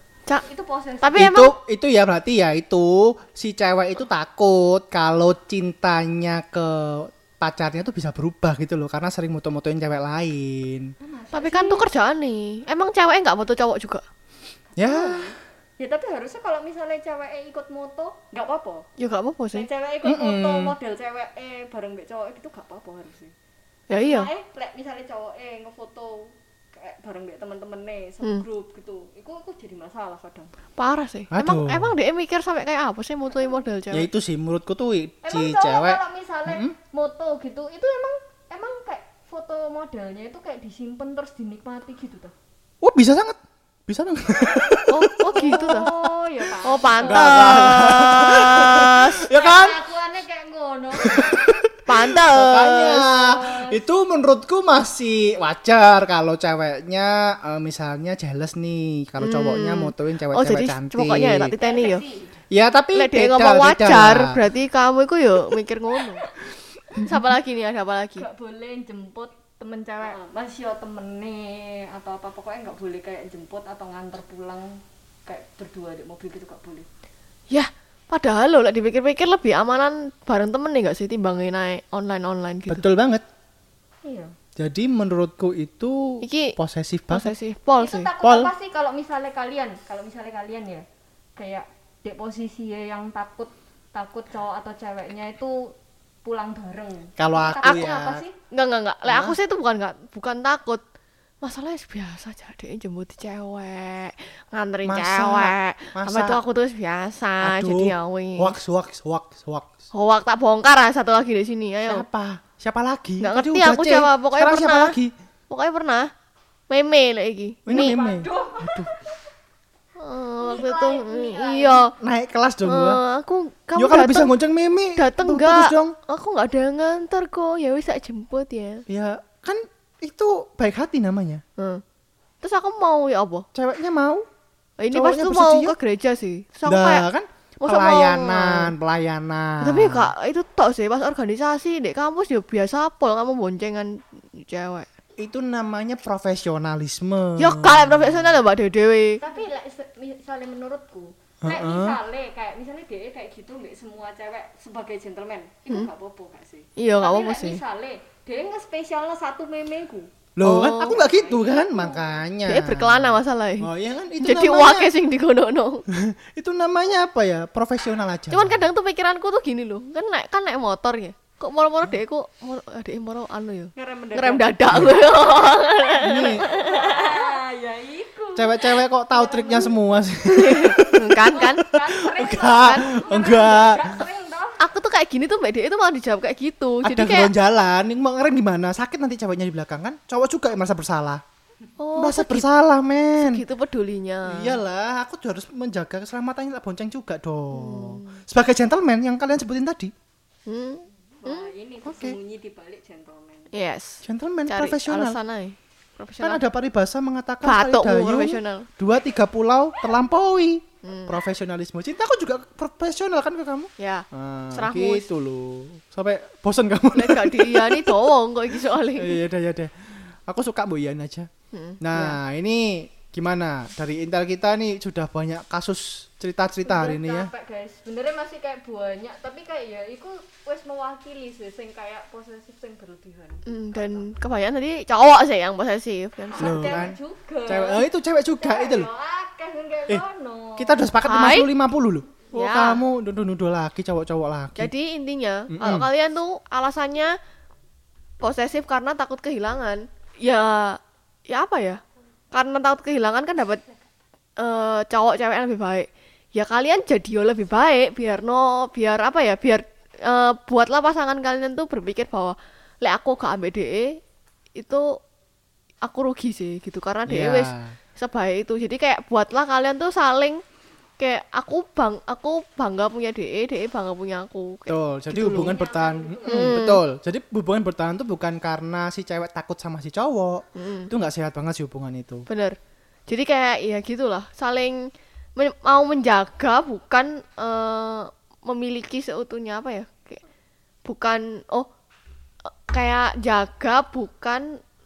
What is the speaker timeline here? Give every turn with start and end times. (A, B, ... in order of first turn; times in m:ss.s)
0:00.5-0:01.3 A
0:01.0-0:01.5 B
0:01.1-0:10.9 C
0:11.0-0:11.9 A
0:11.3-0:14.0 B
0:14.8-0:15.3 C
0:14.8-0:18.8 A
0:19.0-0:19.7 B
0:19.5-0:23.3 A
0:20.0-0:20.7 C
0:23.9-0:24.3 B
0:24.0-0:30.5 A
0:30.8-0:34.1 B
0:31.3-0:31.9 C
0:33.9-0:36.8 C
0:35.2-0:42.3 A
0:42.8-0:45.9 C
0:44.5-0:47.8 A
0:44.9-0:46.0 B
0:46.6-0:49.3 B
0:47.0-0:49.8 C
0:49.3-0:51.6 A
0:51.0-1:01.5 C
0:51.9-0:53.1 B
0:53.2-0:53.8 A
0:59.2-1:02.0 B
1:01.6-1:02.3 A
1:02.5-1:04.4 C
1:02.9-1:06.2 B
1:07.0-1:08.2 B
1:08.2-1:16.9 A
1:17.5-1:22.8 B
1:22.7-1:23.2 C
1:24.0-1:24.3 A
1:24.6-1:27.3 C
1:26.2-1:26.5 B
1:27.1-1:28.1 B
1:27.8-1:30.8 A
1:28.2-1:28.5 C
1:31.4-1:35.7 A
1:36.2-1:38.4 A
1:37.2-1:38.2 C
1:37.6-1:40.8 B
1:39.1-1:39.4 C
1:41.4-1:48.5 B
1:44.8-1:46.4 C
1:47.4-1:49.7 C
1:49.9-1:52.0 B
1:51.9-1:55.1 C
1:53.2-1:55.0 B
1:55.5-1:56.1 B
1:56.7-1:58.0 B
1:57.6-1:58.9 C
1:57.7-1:59.1 A
2:00.0-2:01.9 B
2:00.4-2:01.9 A
2:02.0-2:03.0 C
2:02.6-2:04.3 B
2:03.8-2:06.0 C
2:05.0-2:08.8 B
2:08.9-2:11.4 C
2:11.6-2:11.8 B
2:12.4-2:13.5 B
2:13.5-2:14.2 C
2:14.8-2:17.0 B
2:14.9-2:15.7 C
2:16.7-2:20.1 C
2:17.6-2:18.7 B
2:19.6-2:24.9 B
2:25.2-2:28.3 C
2:27.4-2:29.2 B
2:29.2-2:40.1 A
2:31.4-2:32.0 C
2:36.8-2:37.6 B
2:40.4-2:44.9 C
2:40.4-2:41.0 B
2:40.9-2:42.1 A
2:42.4-2:45.8 B
2:45.9-2:48.7 C
2:48.3-2:57.4 B
2:53.8-2:55.8 A
2:56.0-2:56.4 C
2:56.4-2:59.8 A
2:58.3-3:03.9 C
3:00.2-3:01.6 B
3:01.3-3:04.6 A
3:04.6-3:07.3 B
3:06.8-3:11.2 C
3:11.8-3:12.5 B
3:12.0-3:13.4 C
3:13.2-3:14.6 B
3:14.2-3:19.9 C
3:17.5-3:18.2 B
3:20.5-3:21.5 B
3:21.2-3:23.5 A
3:21.8-3:22.2 C
3:23.5-3:26.4 B
3:24.0-3:25.2 C
3:26.2-3:38.1 C
3:27.4-3:28.7 B
3:30.8-3:31.1 B
3:33.8-3:35.1 B
3:36.9-3:39.2 B
3:38.9-3:39.7 C
3:40.3-3:41.3 C
3:41.5-3:42.2 B
3:41.8-3:47.3 C
3:46.6-3:54.0 A
3:53.4-3:56.9 B
3:56.3-3:57.8 A
3:56.4-3:58.9 C
3:58.4-4:00.9 A
4:00.6-4:04.7 C
4:01.0-4:01.5 B
4:02.3-4:02.8 B
4:04.6-4:07.2 B
4:05.5-4:05.9 C
4:08.2-4:13.6 B
4:14.4-4:24.0 B
4:24.6-4:25.0 B
4:25.8-4:30.4 B
4:27.1-4:27.7 C
4:31.0-4:35.6 B
4:34.7-4:42.3 C
4:35.2-4:36.6 A
4:36.2-4:36.8 B
4:40.6-4:40.9 B
4:42.3-4:42.6 B
4:43.1-4:50.2 B
4:50.8-4:51.7 B
4:52.4-4:54.5 B